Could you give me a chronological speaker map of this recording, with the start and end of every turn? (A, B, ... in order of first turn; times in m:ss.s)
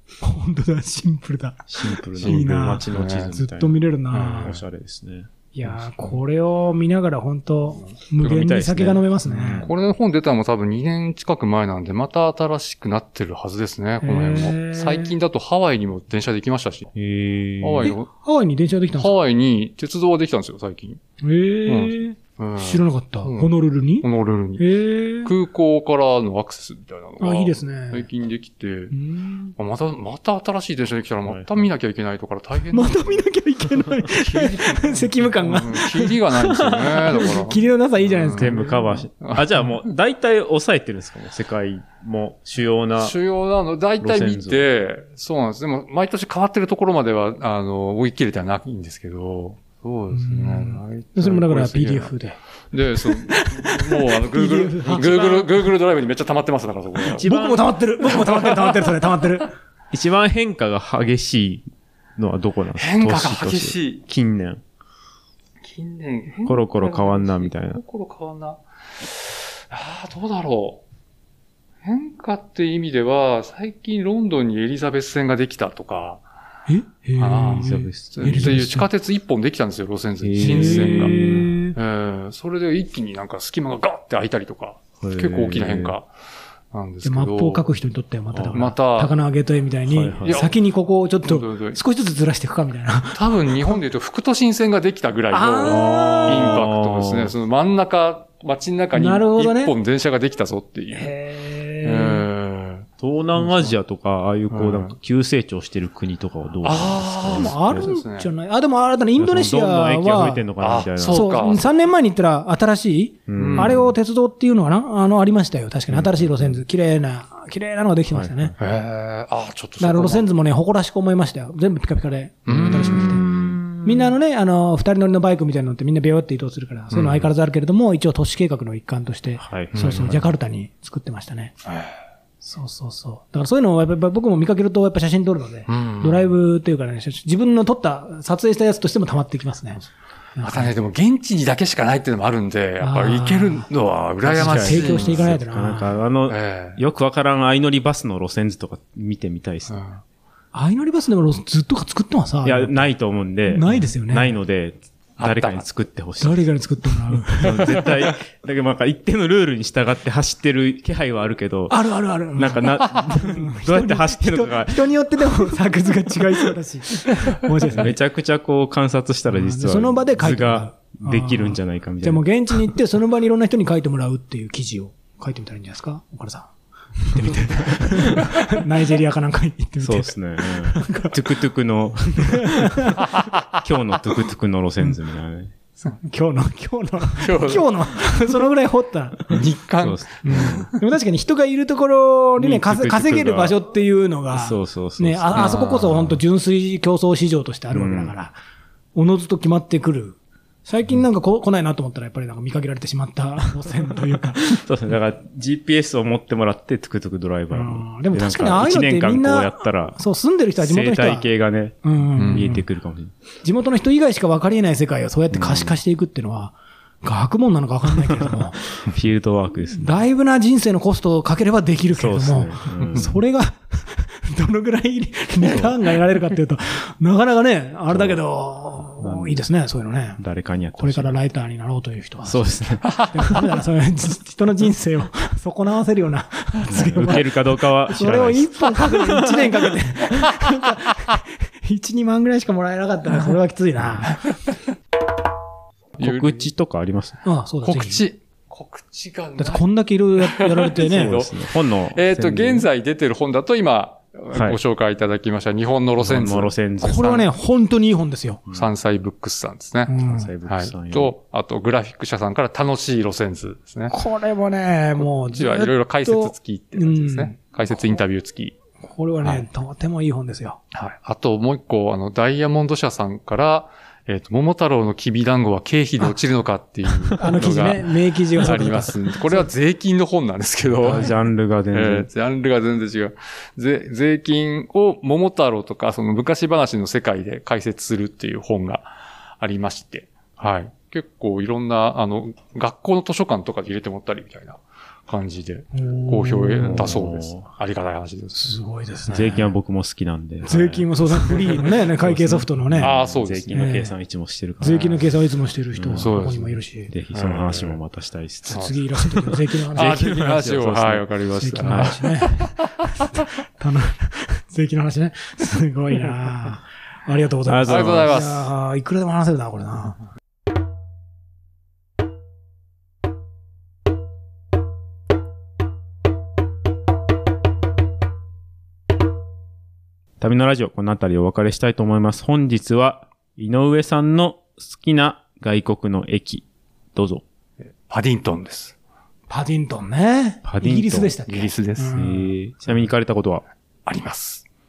0:00.2-0:04.6 A
0:01.7-0:03.8 B
0:02.2-0:03.3 C
0:04.1-0:04.6 C
0:04.3-0:06.1 B
0:05.5-0:09.7 A
0:07.8-0:08.3 C
0:08.2-0:09.7 B
0:09.6-0:16.9 C
0:14.0-0:15.1 A
0:16.9-0:17.9 B
0:17.6-0:18.1 C
0:17.8-0:19.1 A
0:18.9-0:21.0 C
0:21.2-0:24.0 A
0:21.6-0:24.6 C
0:24.6-0:25.3 A
0:25.2-0:28.9 C
0:27.2-0:28.1 A
0:28.9-0:29.5 A
0:29.6-0:33.2 C
0:31.2-0:31.6 B
0:32.7-0:38.7 A
0:34.2-0:39.7 C
0:38.3-0:43.2 B
0:43.0-0:52.2 C
0:44.0-0:44.6 B
0:50.1-0:52.4 A
0:52.7-0:57.3 C
0:53.0-0:55.7 A
0:57.0-0:57.7 B
0:57.2-0:59.5 A
0:58.1-0:58.9 C
0:59.9-1:04.6 B
1:02.8-1:04.0 C
1:05.6-1:10.8 C
1:06.4-1:07.8 B
1:11.8-1:16.2 C
1:16.7-1:18.9 A
1:17.2-1:21.2 C
1:17.6-1:18.6 B
1:20.2-1:21.5 B
1:20.4-1:21.8 A
1:21.7-1:26.1 C
1:25.0-1:25.9 B
1:26.7-1:27.7 C
1:27.0-1:33.7 A
1:28.3-1:28.6 B
1:28.5-1:29.1 C
1:29.9-1:30.5 B
1:30.2-1:30.6 C
1:31.2-1:31.8 C
1:33.1-1:41.1 C
1:35.3-1:36.6 A
1:35.6-1:37.3 B
1:38.9-1:39.7 A
1:40.9-1:42.2 A
1:41.8-1:42.9 C
1:43.0-1:47.9 B
1:43.4-1:43.7 C
1:44.5-1:45.0 C
1:46.6-1:48.3 C
1:47.2-1:50.4 A
1:49.2-1:51.6 B
1:50.6-1:51.7 C
1:51.1-1:58.5 A
1:53.3-1:54.0 B
1:53.4-1:53.8 C
1:55.9-1:56.6 B
1:58.1-1:58.6 B
1:58.6-2:00.3 C
1:59.8-2:03.2 A
2:02.5-2:04.1 C
2:02.5-2:03.6 B
2:03.8-2:11.5 A
2:06.9-2:07.2 C
2:09.4-2:10.3 B
2:09.7-2:10.1 C
2:11.6-2:12.0 C
2:12.4-2:19.8 A
2:15.7-2:16.3 C
2:20.4-2:20.7 A
2:20.4-2:25.4 C
2:22.8-2:23.7 A
2:24.2-2:29.8 B
2:24.3-2:25.9 A
2:26.3-2:26.8 C
2:29.7-2:30.0 C
2:30.5-2:32.8 A
2:32.4-2:36.5 B
2:33.5-2:34.4 A
2:35.2-2:35.7 C
2:36.2-2:37.8 A
2:37.2-2:45.5 B
2:41.7-2:47.9 A
2:47.7-2:52.7 B
2:49.3-3:01.2 A
2:57.6-2:58.3 B
2:59.8-3:05.5 B
3:02.2-3:03.1 A
3:06.0-3:09.4 A
3:07.2-3:08.4 C
3:09.3-3:10.8 C
3:09.8-3:10.7 B
3:10.2-3:18.4 A
3:12.4-3:13.6 B
3:14.3-3:16.2 B
3:15.3-3:16.0 C
3:17.7-3:18.1 B
3:18.9-3:24.5 A
3:24.1-3:30.0 B
3:27.5-3:31.3 A
3:30.6-3:33.1 B
3:31.8-3:32.6 A
3:32.2-3:32.5 C
3:33.4-3:38.6 A
3:35.3-3:35.7 B
3:38.1-3:40.0 B
3:39.7-3:50.2 A
3:42.0-3:43.2 B
3:42.8-3:43.0 C
3:45.4-3:45.8 B
3:47.9-3:48.2 B
3:49.0-3:49.4 B
3:50.2-3:51.2 B
3:50.7-3:52.4 A
3:52.2-3:52.9 B
3:52.9-3:53.1 C
3:53.1-3:57.4 A
3:56.7-3:59.6 B
3:57.9-4:04.2 A
4:06.0-4:06.5 C
4:06.0-4:07.2 B
4:07.2-4:08.0 A
4:07.6-4:17.3 C
4:09.4-4:11.2 A
4:10.7-4:12.7 B
4:14.3-4:14.6 B
4:16.0-4:17.0 B
4:16.8-4:18.4 A
4:18.5-4:23.9 C
4:19.9-4:20.3 A
4:20.0-4:21.1 B
4:23.9-4:28.0 A
4:25.0-4:28.6 C
4:28.8-4:30.6 A
4:30.7-4:41.2 C
4:37.2-4:39.5 A
4:40.8-4:42.1 B
4:41.7-4:48.9 C
4:49.4-4:58.5 C
4:55.7-4:57.0 A
4:56.6-4:57.5 B
4:58.3-4:59.4 A
4:59.0-4:59.5 C
4:59.1-5:05.1 B
5:00.4-5:03.0 A
5:02.8-5:03.6 C
5:03.5-5:03.9 A
5:04.6-5:06.9 A
5:05.7-5:06.4 B
5:05.9-5:06.6 C
5:06.9-5:11.0 B
5:07.1-5:07.8 C
5:08.5-5:10.0 A
5:08.5-5:08.8 C
5:09.7-5:12.8 C
5:11.4-5:20.0 A
5:11.6-5:12.0 B
5:17.4-5:18.2 B
5:17.6-5:18.5 C
5:30.2-5:37.2 B
5:37.8-5:38.7 C
5:39.3-5:42.3 A
5:40.4-5:43.4 B
5:41.3-5:42.0 C
5:43.8-5:44.4 C